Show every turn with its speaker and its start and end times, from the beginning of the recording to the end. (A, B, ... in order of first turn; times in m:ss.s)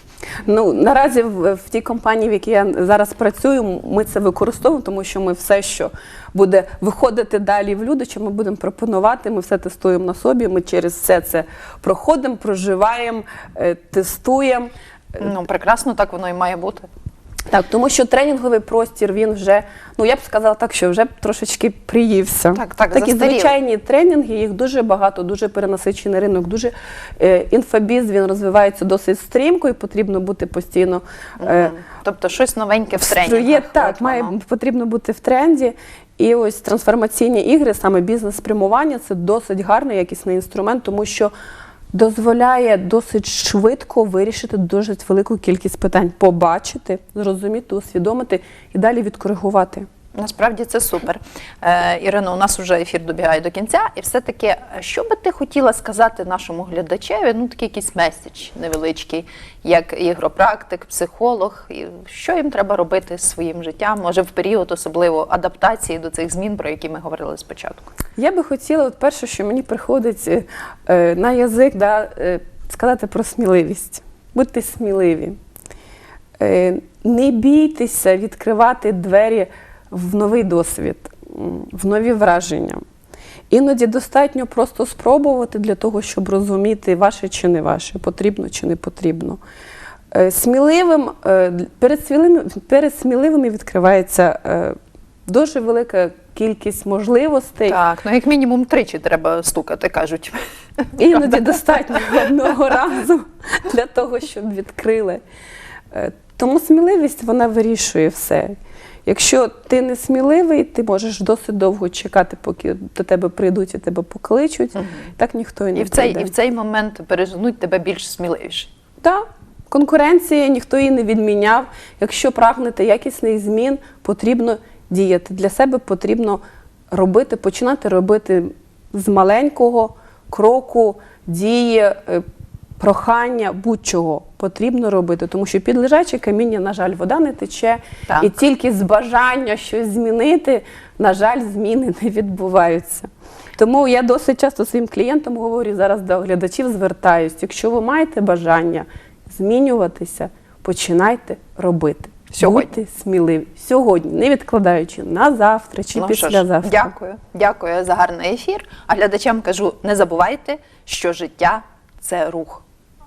0:00.4-0:14.7 A
0:15.2-0:16.9 B
0:17.5-0:31.7 A
0:22.5-0:23.5 B
0:31.4-0:34.3 B
0:33.0-0:41.3 A
0:41.9-0:49.8 A
0:50.1-1:07.9 B
1:08.2-1:15.4 A
1:16.4-1:22.8 A
1:23.5-1:29.4 A
1:30.1-1:37.8 A
1:37.7-1:42.3 B
1:41.0-1:45.2 A
1:45.9-1:56.3 A
1:54.8-1:55.0 B
1:55.7-1:58.7 B
1:59.0-2:12.2 A
2:12.8-2:36.9 A
2:32.4-2:32.7 B
2:36.0-2:42.6 B